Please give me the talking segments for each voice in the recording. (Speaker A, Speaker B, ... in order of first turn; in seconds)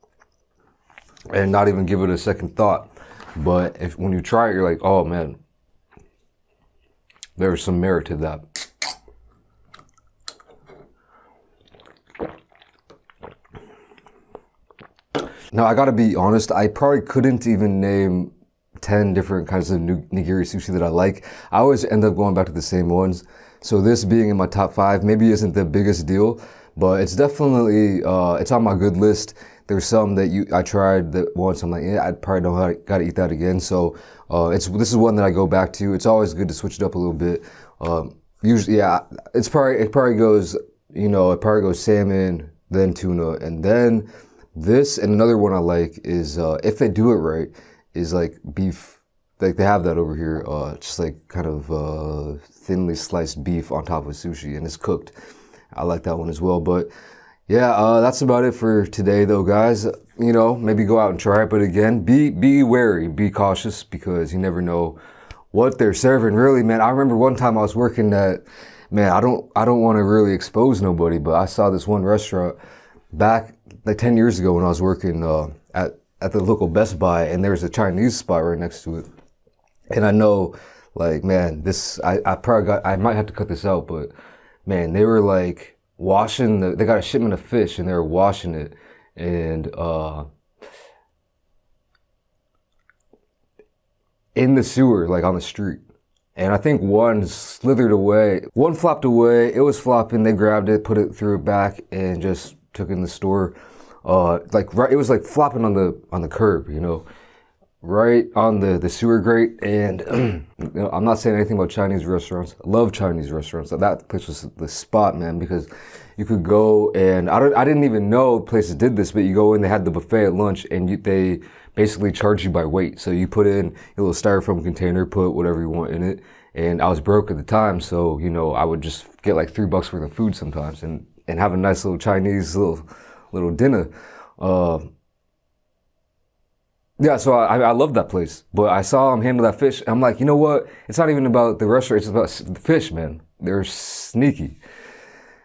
Speaker A: 1.3-5.4, 7.4-8.4, 15.5-55.1, 55.7-56.9, 57.5-65.0, 65.5-72.5, 73.1-79.0, 79.9-84.1, 84.7-90.2, 94.3-95.8, 96.3-107.0, 107.8-134.9, 137.0-144.6